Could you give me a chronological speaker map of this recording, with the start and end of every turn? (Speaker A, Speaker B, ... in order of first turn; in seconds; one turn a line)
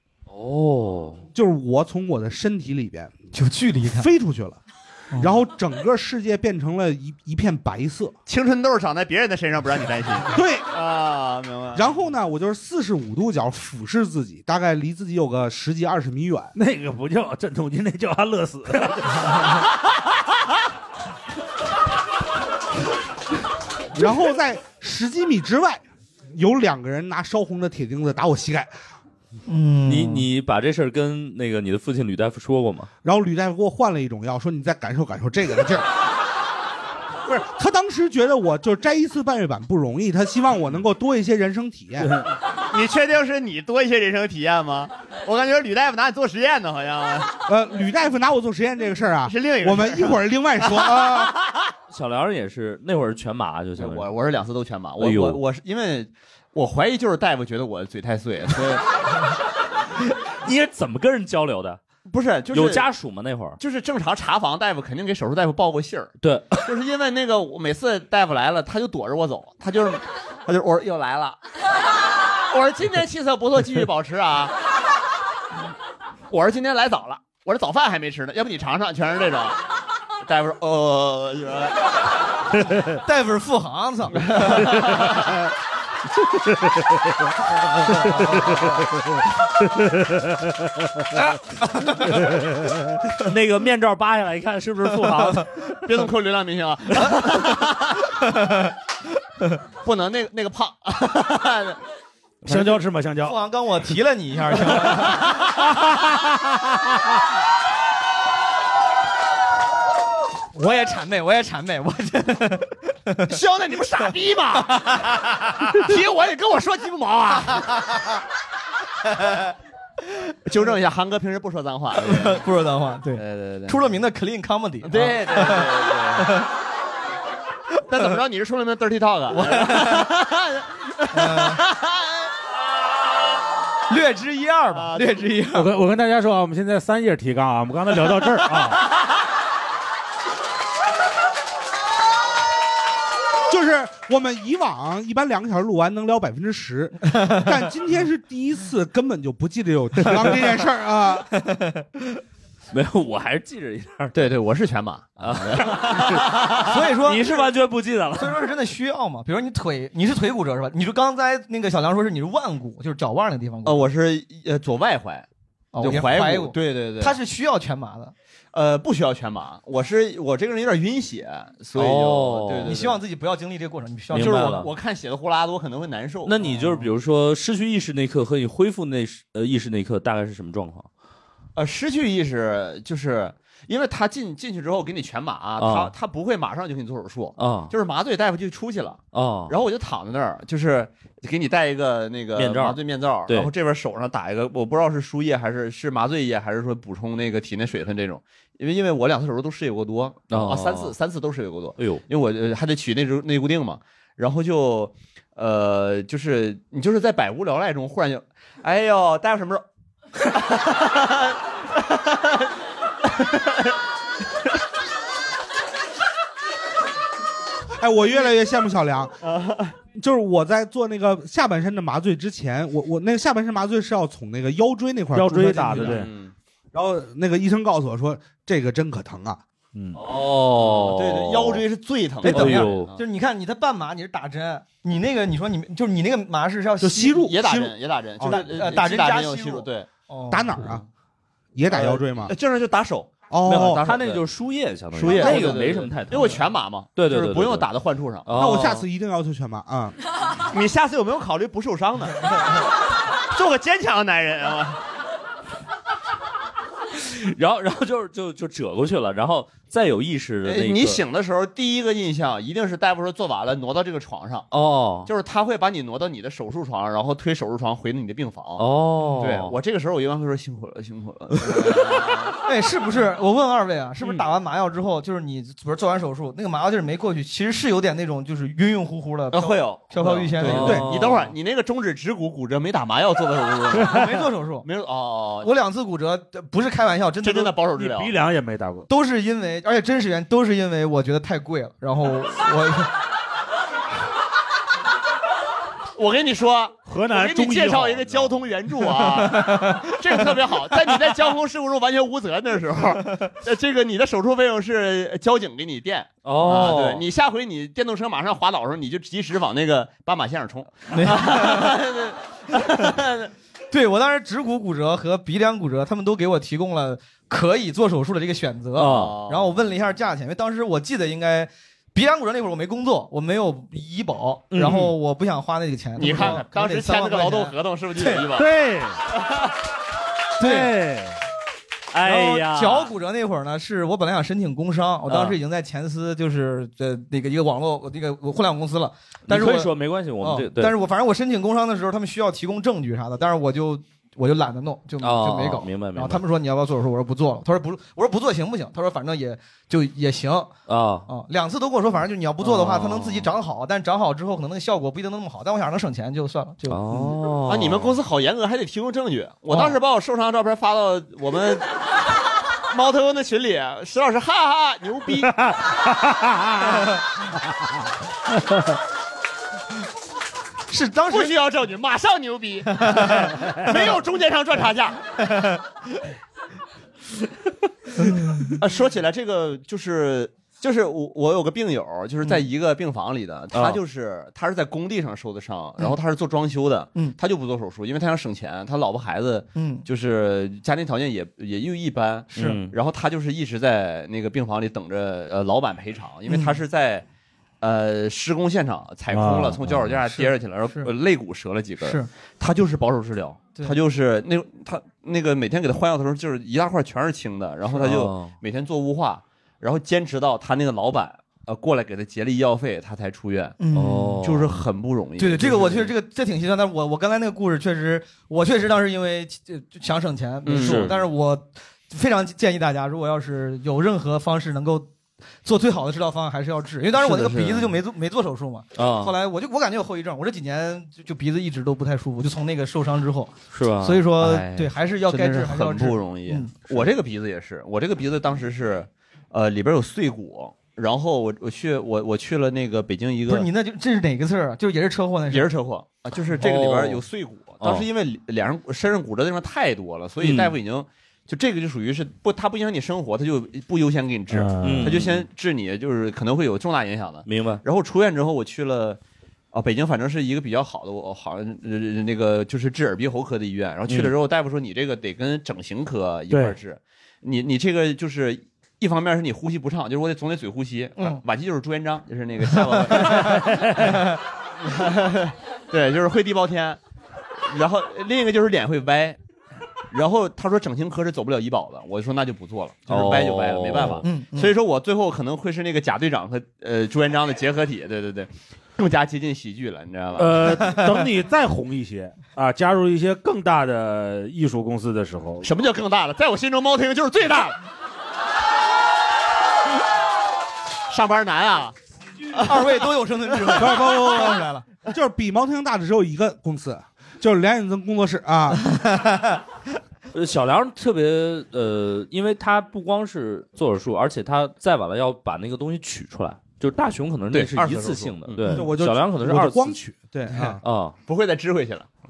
Speaker A: 0.3-1.2
Speaker B: 1.3-3.2
Speaker C: 3.3-4.1
Speaker B: 3.9-4.6
Speaker C: 5.1-5.4
Speaker B: 5.2-8.2
Speaker D: 8.3-11.8
Speaker B: 10.3-10.7
Speaker B: 11.7-16.5
Speaker E: 16.6-19.5
Speaker B: 23.9-28.7
Speaker C: 29.5-30.3
Speaker A: 29.9-32.9
Speaker B: 33.0-35.9
Speaker B: 37.3-42.2
Speaker D: 42.7-47.3
Speaker B: 47.5-51.4
Speaker D: 49.2-51.6
Speaker A: 51.9-54.1
Speaker D: 53.8-58.9
Speaker A: 55.0-55.4
Speaker A: 60.4-61.8
Speaker D: 62.1-62.9
Speaker A: 62.5-63.6
Speaker D: 63.6-71.4
Speaker A: 66.2-66.7
Speaker D: 72.5-74.5
Speaker D: 76.3-79.6
Speaker D: 80.2-81.8
Speaker C: 83.0-84.8
Speaker D: 84.2-85.4
Speaker C: 88.0-88.3
Speaker E: 88.1-88.5
Speaker C: 91.7-92.2
Speaker E: 92.2-95.5
Speaker C: 95.1-95.5
Speaker D: 95.8-98.1
Speaker C: 98.2-98.7
Speaker D: 99.8-101.8
Speaker E: 102.4-103.4
Speaker C: 103.2-105.2
Speaker C: 110.5-113.4
Speaker D: 113.3-117.7
Speaker D: 120.5-122.5
Speaker C: 122.0-126.5
Speaker D: 123.1-123.8
Speaker D: 124.8-126.4
Speaker D: 127.9-132.2
Speaker C: 129.3-130.1
Speaker C: 131.1-131.6
Speaker C: 133.9-135.7
Speaker D: 134.7-135.2
Speaker E: 135.6-138.8
Speaker B: 143.5-151.3
Speaker C: 147.2-147.5
Speaker C: 151.4-152.2
Speaker A: 152.7-154.3
Speaker D: 154.1-156.8
Speaker A: 155.2-158.4
Speaker C: 156.7-157.4
Speaker C: 158.2-163.9
Speaker D: 163.7-165.3
Speaker C: 165.7-168.1
Speaker D: 165.8-167.2
Speaker D: 168.5-173.0
Speaker A: 171.8-172.8
Speaker C: 172.6-174.7
Speaker A: 174.1-174.7
Speaker D: 174.2-176.6
Speaker A: 176.2-180.9
Speaker D: 181.6-209.7
Speaker A: 185.6-185.9
Speaker A: 187.4-187.7
Speaker A: 189.1-189.6
Speaker A: 192.4-193.5
Speaker A: 200.3-200.9
Speaker A: 201.8-202.0
Speaker D: 210.2-212.5
Speaker D: 213.1-213.7
Speaker B: 217.8-219.2
Speaker D: 219.2-219.8
Speaker B: 219.9-226.1
Speaker E: 225.1-226.1
Speaker D: 225.8-226.3
Speaker B: 226.7-229.4
Speaker E: 229.7-230.0
Speaker A: 229.9-231.7
Speaker D: 230.6-233.0
Speaker A: 232.2-232.9
Speaker C: 232.2-237.3
Speaker B: 236.8-238.5
Speaker D: 237.2-239.9
Speaker C: 238.2-240.6
Speaker B: 240.3-240.8
Speaker B: 241.6-242.3
Speaker D: 241.7-244.2
Speaker B: 243.3-244.0
Speaker A: 243.5-247.7
Speaker D: 244.9-248.3
Speaker C: 245.1-245.5
Speaker A: 248.2-248.9
Speaker B: 248.3-250.0
Speaker D: 250.5-252.3
Speaker D: 253.3-254.8
Speaker A: 257.0-261.0
Speaker D: 260.4-264.5
Speaker A: 264.5-265.1
Speaker D: 265.1-268.7
Speaker A: 268.6-269.6
Speaker D: 269.2-272.4
Speaker C: 272.4-280.8
Speaker D: 279.3-284.1
Speaker A: 280.4-281.3
Speaker E: 283.7-284.1
Speaker C: 283.8-284.7
Speaker D: 284.6-285.5
Speaker C: 285.4-287.6
Speaker D: 287.2-288.2
Speaker E: 287.7-288.9
Speaker C: 288.9-292.9
Speaker D: 296.0-313.3
Speaker E: 296.9-298.4
Speaker C: 299.2-299.9
Speaker A: 306.2-307.1
Speaker C: 310.9-311.7
Speaker C: 313.7-328.2
Speaker A: 318.8-319.2
Speaker D: 318.8-319.6
Speaker A: 324.5-324.9
Speaker D: 326.0-328.6
Speaker E: 328.3-329.0
Speaker D: 329.1-329.5
Speaker C: 330.4-330.8
Speaker E: 330.4-331.2
Speaker A: 331.9-332.9
Speaker C: 332.0-350.5
Speaker A: 335.1-335.4
Speaker A: 339.3-340.8
Speaker A: 345.0-346.2
Speaker A: 350.7-351.1
Speaker C: 351.1-356.8
Speaker A: 352.4-353.3
Speaker A: 356.7-358.0
Speaker D: 357.5-361.7
Speaker C: 359.5-359.8
Speaker D: 362.7-365.5
Speaker E: 366.1-366.5
Speaker C: 370.7-371.4
Speaker D: 371.1-375.0
Speaker C: 372.8-373.7
Speaker C: 375.2-375.6
Speaker C: 378.0-378.5
Speaker D: 378.6-397.1
Speaker A: 383.5-383.8
Speaker C: 389.6-389.9
Speaker A: 392.4-392.7
Speaker C: 396.3-396.6
Speaker D: 397.6-413.6
Speaker E: 399.1-399.6
Speaker C: 400.1-400.9
Speaker C: 401.8-402.1
Speaker A: 407.8-408.4
Speaker C: 413.6-414.2
Speaker A: 413.7-414.6
Speaker D: 414.2-415.9
Speaker C: 415.2-424.9
Speaker D: 420.4-420.9
Speaker A: 420.5-421.0
Speaker C: 425.4-436.8
Speaker D: 427.0-427.6
Speaker A: 428.8-429.1
Speaker A: 433.5-434.1
Speaker D: 434.2-443.5
Speaker C: 443.3-445.5
Speaker D: 445.3-459.0
Speaker A: 446.4-447.0
Speaker A: 447.6-447.9
Speaker A: 450.2-450.6
Speaker E: 454.3-454.9
Speaker A: 454.6-455.3
Speaker A: 457.3-457.6
Speaker D: 459.5-474.0
Speaker A: 463.9-464.1
Speaker E: 466.3-466.6
Speaker C: 472.9-474.2
Speaker D: 474.6-476.8
Speaker D: 477.4-479.2
Speaker D: 479.9-490.8
Speaker A: 482.9-484.1
Speaker C: 484.0-484.5
Speaker E: 490.2-495.5
Speaker D: 495.4-497.6
Speaker D: 500.9-501.8
Speaker D: 502.3-502.9
Speaker C: 502.4-504.7
Speaker D: 503.5-503.8
Speaker B: 503.6-508.7
Speaker C: 508.7-509.4
Speaker A: 510.1-519.8
Speaker D: 517.3-518.5
Speaker B: 518.5-520.6
Speaker A: 520.6-521.0
Speaker D: 521.1-521.9